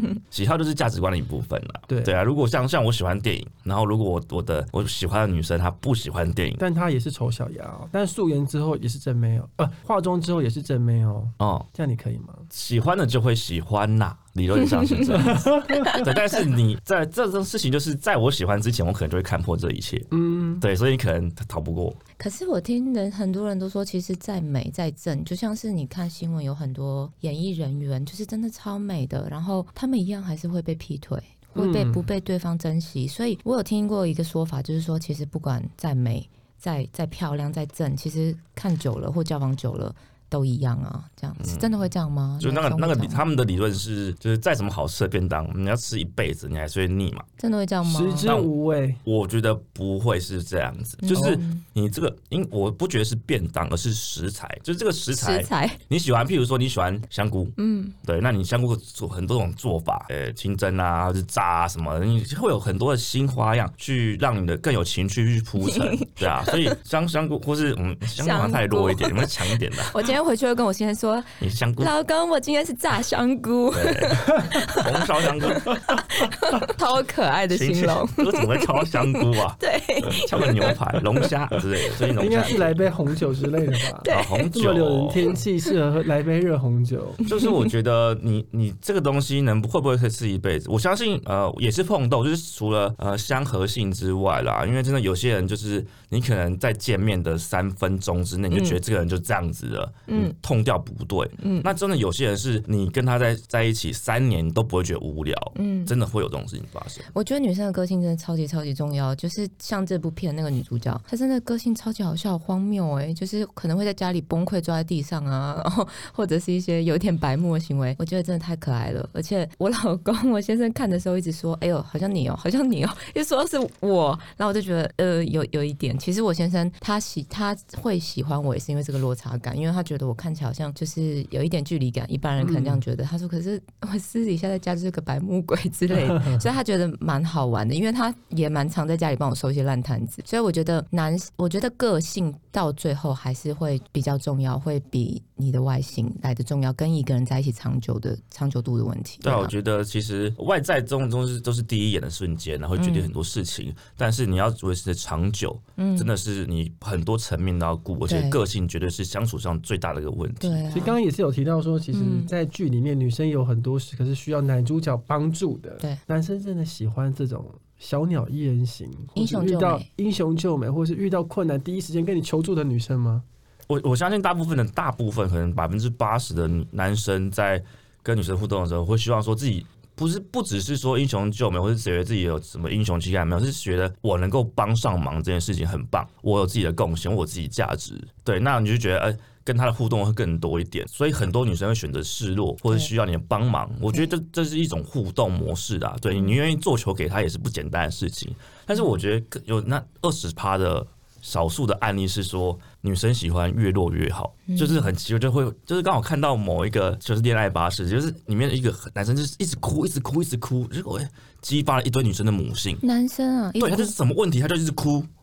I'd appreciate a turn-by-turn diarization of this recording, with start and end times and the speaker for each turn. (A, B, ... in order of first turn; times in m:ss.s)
0:00.3-0:06.6 A
0:01.9-0:02.2 B
0:06.6-0:12.5 B
0:11.4-0:11.7 A
0:12.5-0:22.0 A
0:15.1-0:16.1 B
0:15.7-0:16.0 C
0:20.1-0:20.6 B
0:22.2-0:43.2 C
0:31.6-0:32.1 B
0:41.4-0:41.7 A
0:42.4-0:47.3 A
0:47.4-0:48.4 C
0:47.8-0:49.0 B
0:48.2-0:48.5 A
0:49.0-1:10.1 A
0:51.0-0:51.6 C
0:51.1-0:51.4 B
0:55.1-0:55.8 C
0:57.6-0:57.9 C
1:05.6-1:06.8 C
1:08.2-1:21.3 C
1:11.4-1:11.9 A
1:13.7-1:15.8 A
1:17.5-1:22.8 A
1:22.2-1:27.2 B
1:24.0-1:24.5 C
1:24.0-1:25.2 A
1:27.2-1:47.1 A
1:38.5-1:38.8 C
1:40.1-1:40.3 C
1:41.4-1:41.7 C
1:45.6-1:45.9 C
1:47.1-2:29.5 C
2:12.4-2:12.8 B
2:16.1-2:16.4 B
2:29.2-2:40.6 A
2:32.8-2:33.1 C
2:35.8-2:36.1 C
2:38.1-2:38.4 C
2:40.4-2:41.0 C
2:40.7-2:53.2 B
2:41.9-2:42.3 C
2:49.2-2:49.9 C
2:53.7-3:32.8 A
3:24.5-3:24.9 C
3:32.8-3:33.9 C
3:33.6-3:35.1 A